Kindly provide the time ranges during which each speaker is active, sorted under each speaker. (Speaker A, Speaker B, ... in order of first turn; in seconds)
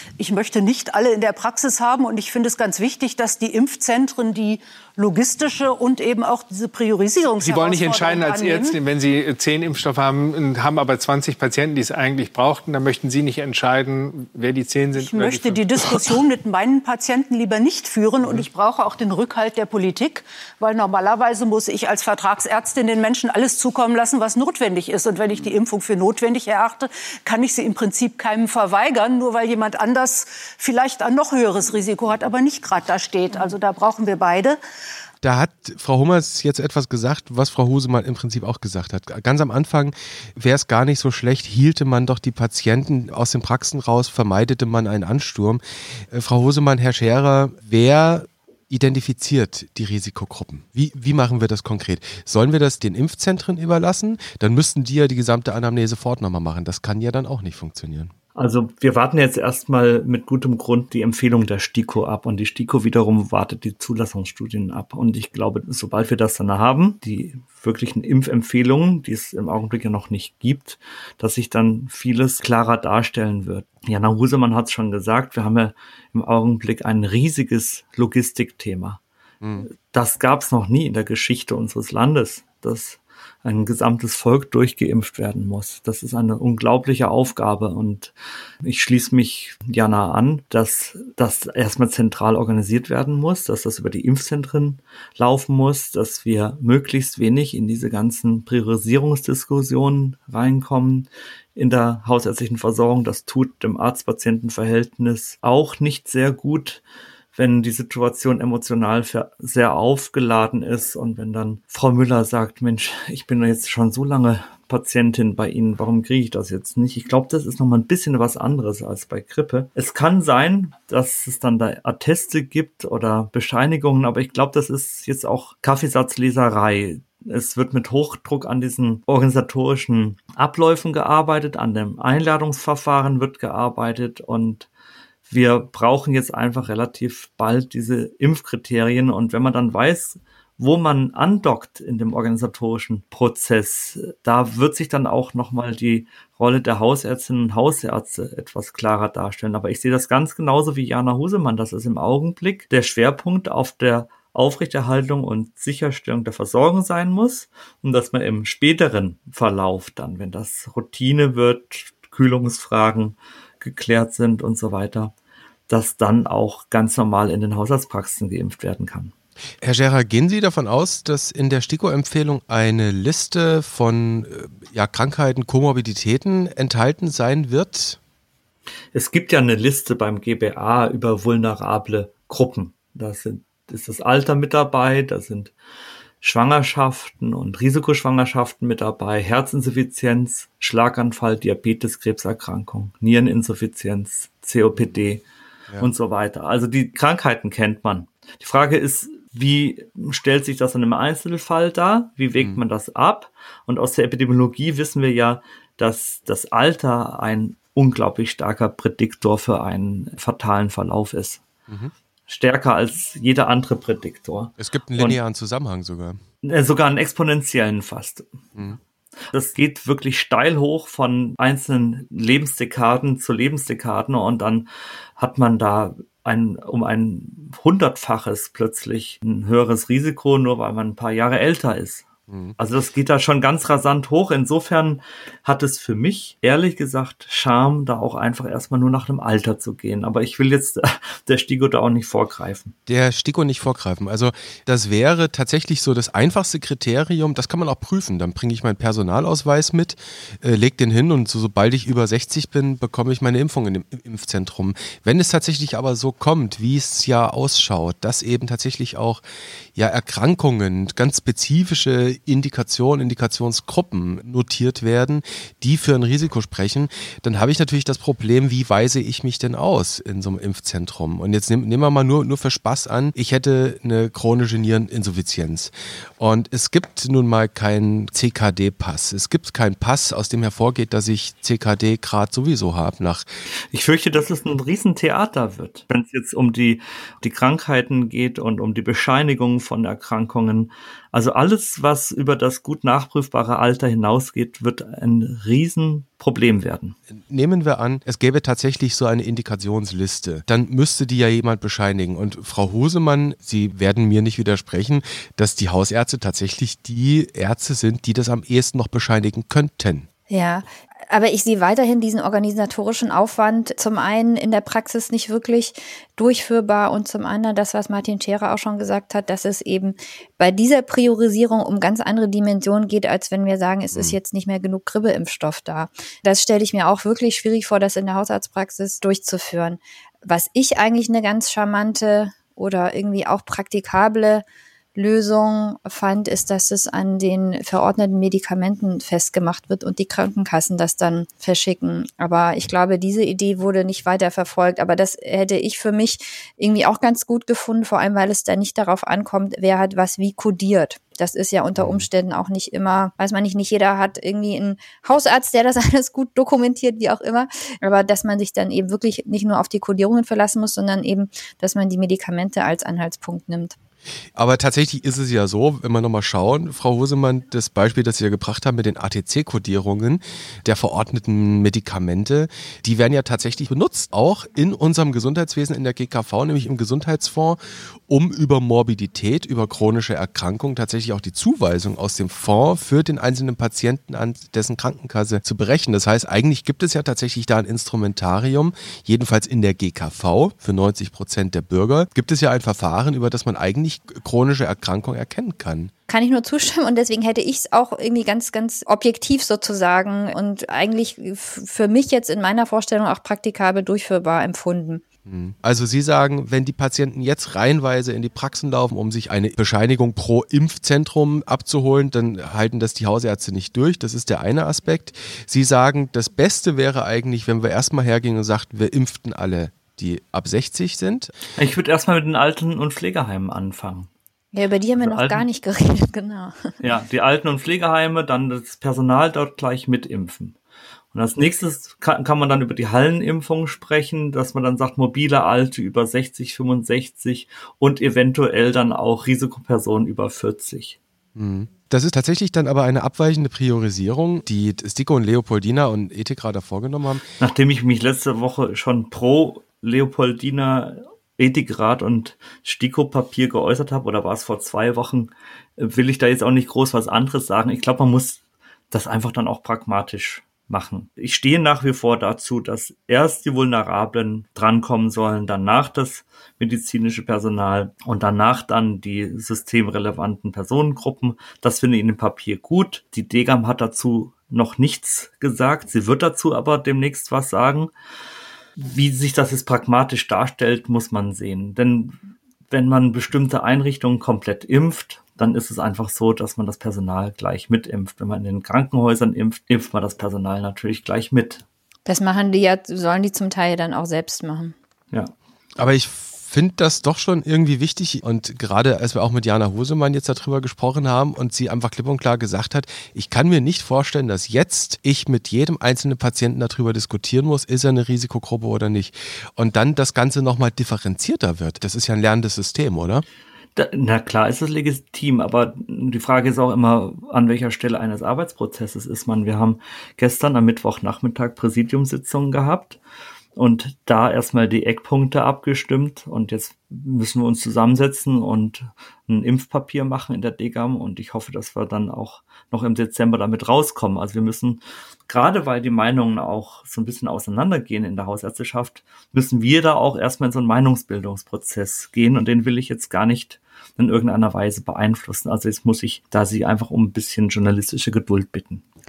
Speaker A: 0.2-8.8, 14.9-34.6
Speaker B: 7.4-16.2
Speaker C: 35.2-58.1, 79.4-79.7, 169.6-178.0, 211.7-211.9, 214.6-216.2, 232.3-232.6, 242.9-259.2, 259.8-283.3, 297.1-310.1, 351.8-352.1, 364.4-395.9, 405.3-421.3, 441.4-447.2, 495.8-513.2
Speaker D: 58.3-79.0, 79.7-106.8, 107.3-134.7, 135.3-165.1, 165.7-169.1, 178.9-185.5, 186.2-195.2, 195.8-211.4, 212.3-215.2, 216.4-218.3, 219.3-232.1, 232.6-242.7, 283.7-296.9, 421.6-424.1, 425.0-425.4, 426.8-430.6, 431.1-441.0, 447.4-477.9, 478.8-482.2, 482.7-491.6, 513.8-523.0, 523.5-548.8
Speaker E: 310.3-334.4, 334.9-363.8, 396.1-405.0, 424.5-426.7, 492.1-494.7